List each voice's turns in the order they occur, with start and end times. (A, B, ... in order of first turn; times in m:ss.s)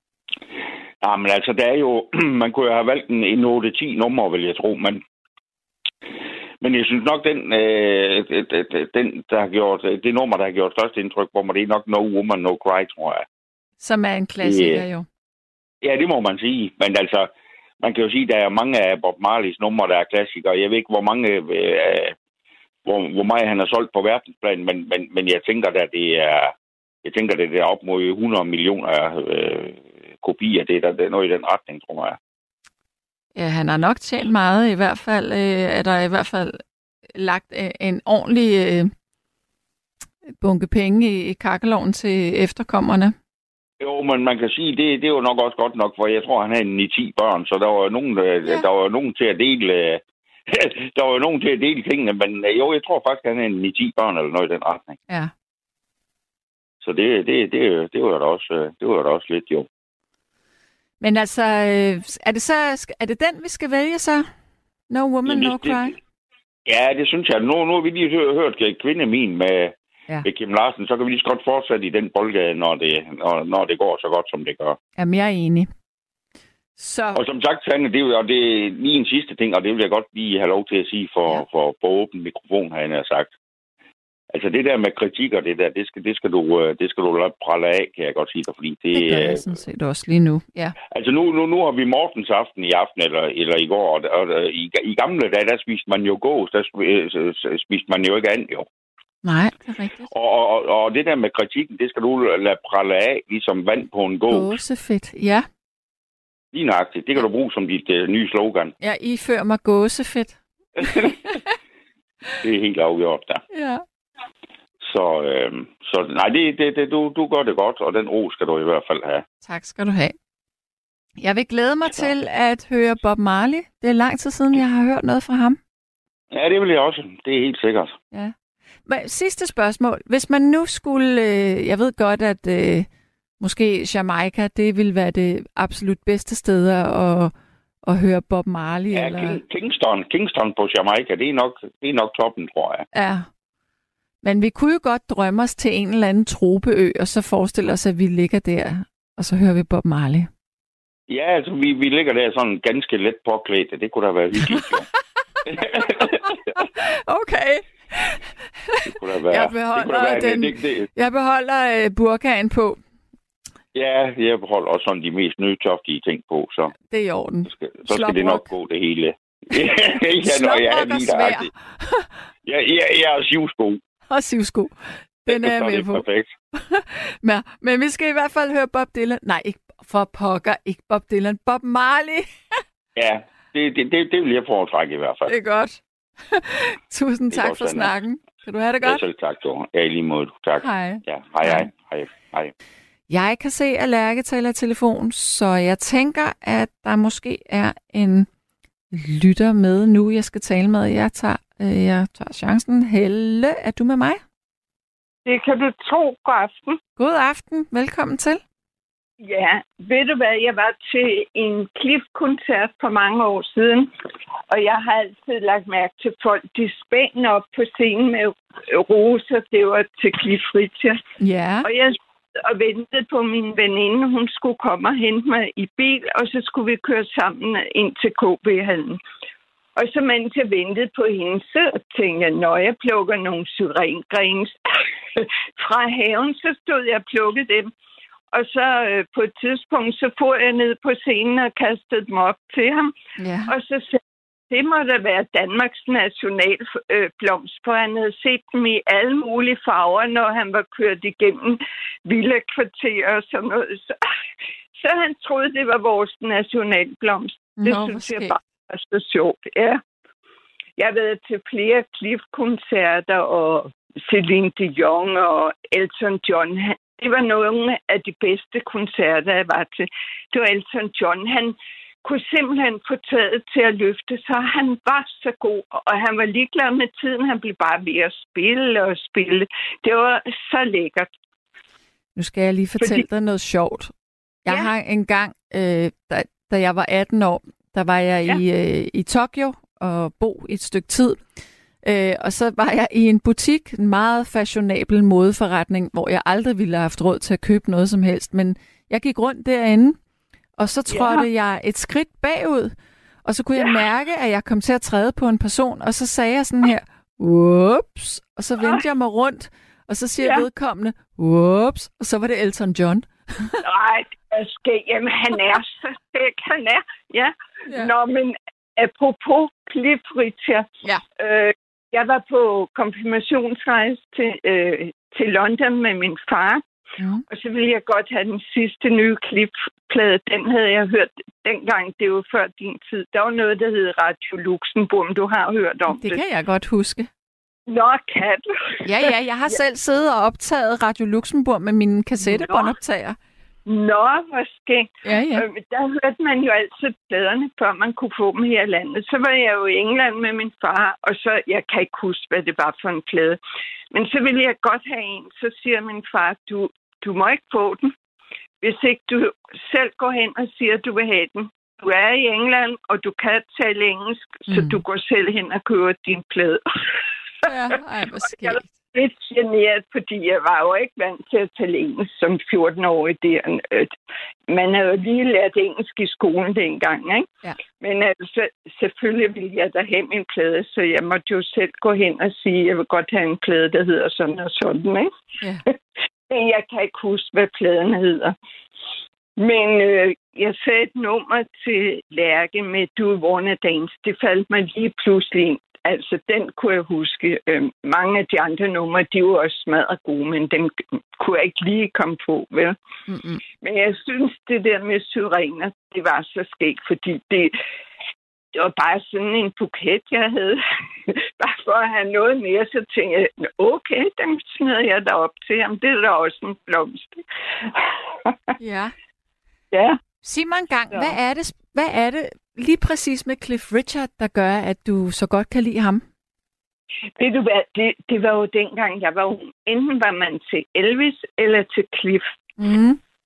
0:01.0-0:05.0 A
0:06.6-0:13.3 A
0:13.8-0:15.1 B
0:14.4-0:14.8 A
0:15.8-0:22.2 A
0:22.8-0:32.2 A
0:33.4-0:36.6 B
0:37.2-0:38.9 B
0:40.4-0:43.2 B
0:43.8-0:55.0 A
0:56.8-0:59.7 A
1:01.0-1:04.3 B
1:04.9-1:06.0 B
1:05.3-1:06.0 A
1:06.7-1:14.8 A
1:15.0-1:15.7 B
1:16.8-1:17.2 B
1:17.1-1:23.3 A
1:24.3-1:29.5 A
1:28.9-1:30.8 B
1:30.9-1:38.7 A
1:39.2-1:40.1 B
1:40.1-1:44.6 A
1:44.3-1:45.5 B
1:46.5-1:48.7 A
1:48.8-1:51.4 B
1:50.8-1:51.1 A
1:52.4-1:53.4 A
1:53.5-1:53.8 B
1:54.8-1:59.2 A
1:59.4-2:00.2 B
2:01.2-2:05.6 B
2:06.3-2:08.0 A
2:08.9-2:12.9 B
2:13.4-2:17.3 B
2:17.9-2:19.4 B
2:18.9-2:22.8 A
2:22.9-2:23.3 B
2:24.2-2:30.3 B
2:31.1-2:34.9 A
2:35.5-2:36.4 A
2:36.6-2:42.8 B
2:38.9-2:40.9 A
2:43.8-2:46.7 A
2:46.8-2:48.5 B
2:47.5-2:51.5 A
2:50.2-2:52.1 B
2:52.4-2:53.8 A
2:54.1-3:02.3 B
2:55.3-2:56.3 A
3:03.0-3:05.3 A
3:05.3-3:09.0 B
3:07.3-3:07.9 A
3:08.8-3:12.5 A
3:10.6-3:11.7 B
3:13.1-3:18.3 B
3:18.9-3:24.2 B
3:25.2-3:26.8 C
3:27.0-3:28.4 B
3:29.2-3:33.9 C
3:34.5-3:41.0 C
3:41.2-3:41.7 B
3:41.6-3:49.0 C
3:49.8-3:54.6 C
3:55.2-3:57.7 C
3:58.3-4:02.9 C
4:03.2-4:03.5 B
4:03.5-4:14.0 C
4:14.8-4:19.8 C
4:17.6-4:18.3 B
4:20.8-4:41.1 C
4:42.2-4:43.9 B
4:44.4-4:51.2 B
4:51.8-5:00.0 B
5:00.6-5:02.7 B
5:00.9-5:01.3 C
5:03.2-5:13.6 B
5:10.2-5:10.5 C
5:13.6-5:20.7 C
5:21.2-5:26.6 C
5:27.0-5:27.2 B
5:27.3-5:36.2 C
5:35.9-5:37.1 B
5:37.7-5:39.5 C
5:38.8-5:43.2 B
5:42.2-5:42.7 C
5:43.7-5:53.4 C
5:45.0-5:45.5 B
5:53.9-5:57.9 C
5:58.6-6:07.5 C
6:04.5-6:04.8 B
6:07.4-6:08.7 B
6:08.3-6:14.0 C
6:14.5-6:17.3 C
6:17.8-6:25.1 C
6:26.3-6:28.4 C
6:29.4-6:42.8 C
6:43.1-6:43.4 B
6:43.6-6:47.6 C
6:48.5-6:58.5 C
6:58.6-6:58.9 B
6:59.7-7:00.0 C
7:00.2-7:06.0 B
7:07.2-7:12.3 C
7:12.6-7:13.0 B